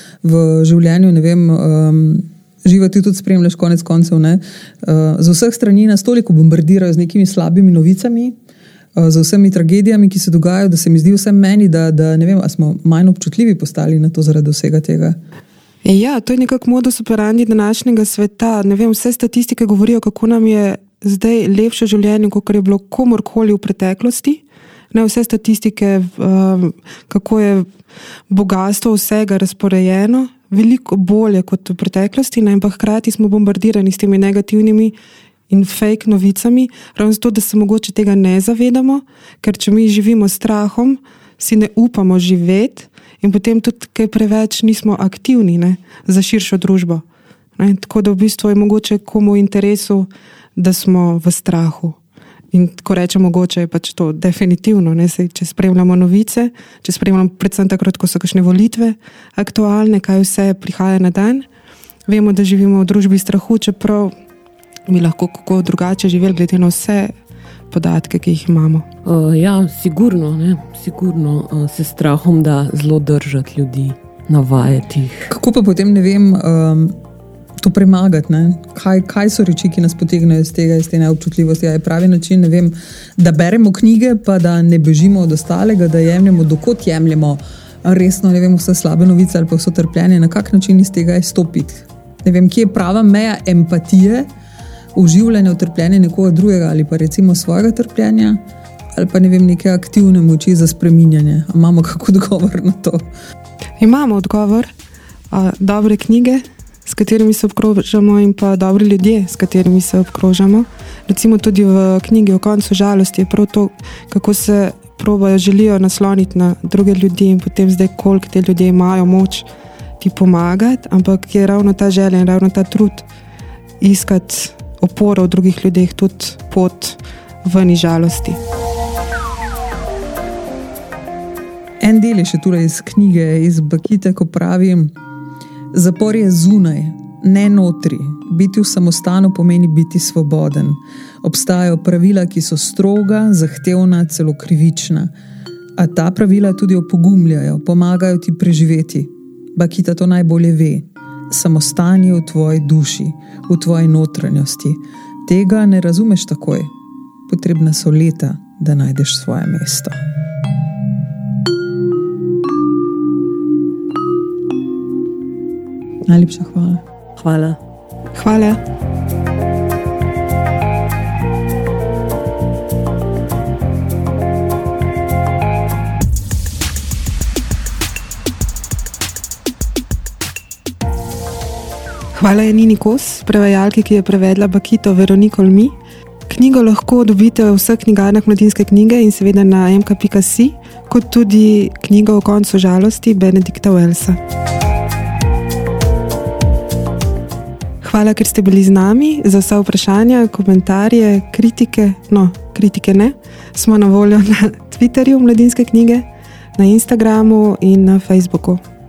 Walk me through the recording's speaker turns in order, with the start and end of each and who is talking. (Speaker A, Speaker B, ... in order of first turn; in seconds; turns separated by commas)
Speaker A: 0.2-8.3, Speaker A: 9.0-15.2, Speaker B: 15.8-24.4, Speaker B: 24.9-27.7, Speaker B: 28.3-35.0, Speaker B: 35.5-47.0, Speaker B: 47.6-52.0, Speaker B: 52.5-61.5, Speaker B: 62.1-64.1, Speaker B: 64.9-67.1, Speaker B: 67.7-68.8, Speaker C: 69.0-75.3, Speaker A: 75.3-76.9, Speaker A: 77.6-94.3, Speaker A: 95.0-98.4, Speaker A: 99.0-103.1, Speaker B: 103.8-104.7, Speaker B: 105.3-119.5, Speaker B: 120.0-123.1, Speaker B: 123.8-128.4, Speaker A: 131.8-134.9, Speaker A: 135.7-145.1, Speaker A: 145.8-156.7, Speaker A: 157.3-159.9, Speaker A: 166.1-166.8, Speaker C: 167.2-167.6, Speaker B: 168.2-168.6, Speaker B: 182.1-185.8, Speaker B: 186.3-194.2, Speaker B: 197.8-206.1, Speaker B: 206.6-208.6